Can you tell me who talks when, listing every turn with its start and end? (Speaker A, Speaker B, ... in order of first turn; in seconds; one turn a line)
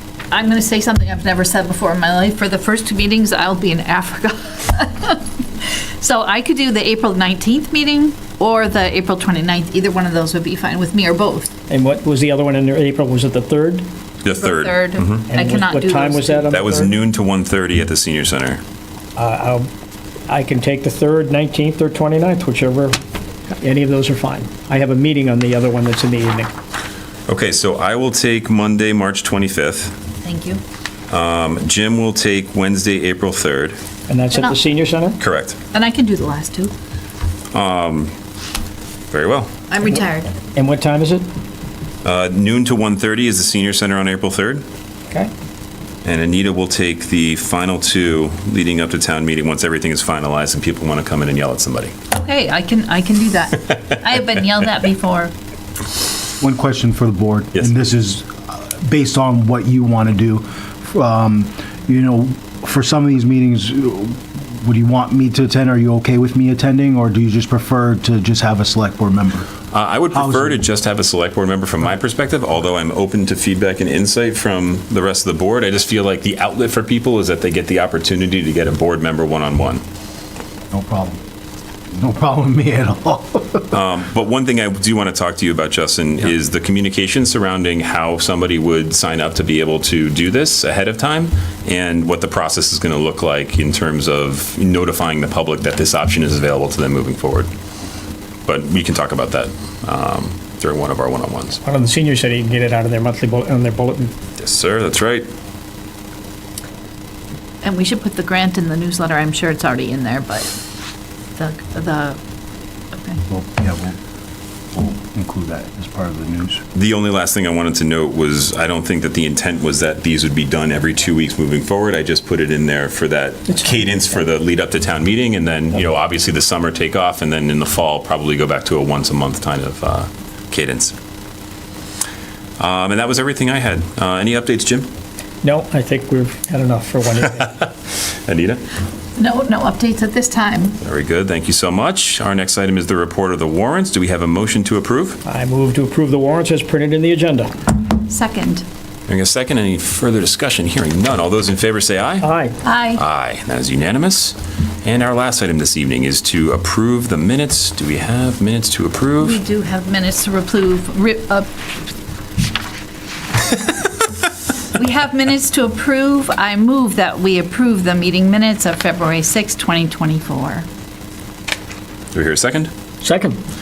Speaker A: 0.3-11.5
Speaker B: 11.7-13.8
Speaker C: 14.2-15.3
Speaker A: 14.4-16.5
Speaker B: 15.3-16.9
Speaker C: 16.5-18.6
Speaker B: 19.2-19.7
Speaker B: 20.3-22.9
Speaker B: 23.5-26.5
Speaker C: 27.3-29.9
Speaker A: 30.2-30.6
Speaker C: 31.1-33.8
Speaker B: 34.1-35.2
Speaker A: 34.3-34.5
Speaker C: 35.2-35.6
Speaker A: 35.7-36.7
Speaker C: 37.5-38.1
Speaker C: 39.1-39.5
Speaker A: 39.7-40.3
Speaker B: 39.9-41.2
Speaker C: 42.0-44.6
Speaker C: 46.0-51.9
Speaker A: 52.1-55.3
Speaker D: 56.4-69.5
Speaker C: 69.7-79.8
Speaker D: 70.1-70.6
Speaker D: 80.7-81.2
Speaker D: 81.9-83.7
Speaker C: 83.7-97.5
Speaker C: 98.5-101.6
Speaker B: 101.6-104.1
Speaker C: 104.4-105.3
Speaker A: 107.6-110.6
Speaker A: 111.4-112.2
Speaker A: 112.9-113.2
Speaker D: 113.3-114.0
Speaker D: 114.7-116.6
Speaker C: 116.7-130.9
Speaker B: 123.5-123.8
Speaker C: 132.6-134.9
Speaker B: 135.4-137.6
Speaker C: 137.4-138.6
Speaker A: 139.2-140.8
Speaker C: 140.8-145.2
Speaker B: 145.2-147.5
Speaker A: 148.1-148.6
Speaker C: 149.1-152.3
Speaker B: 152.2-152.6
Speaker A: 152.6-153.0
Speaker C: 152.9-159.4
Speaker A: 159.2-161.5
Speaker A: 164.7-170.7
Speaker C: 172.1-172.7
Speaker B: 173.0-173.4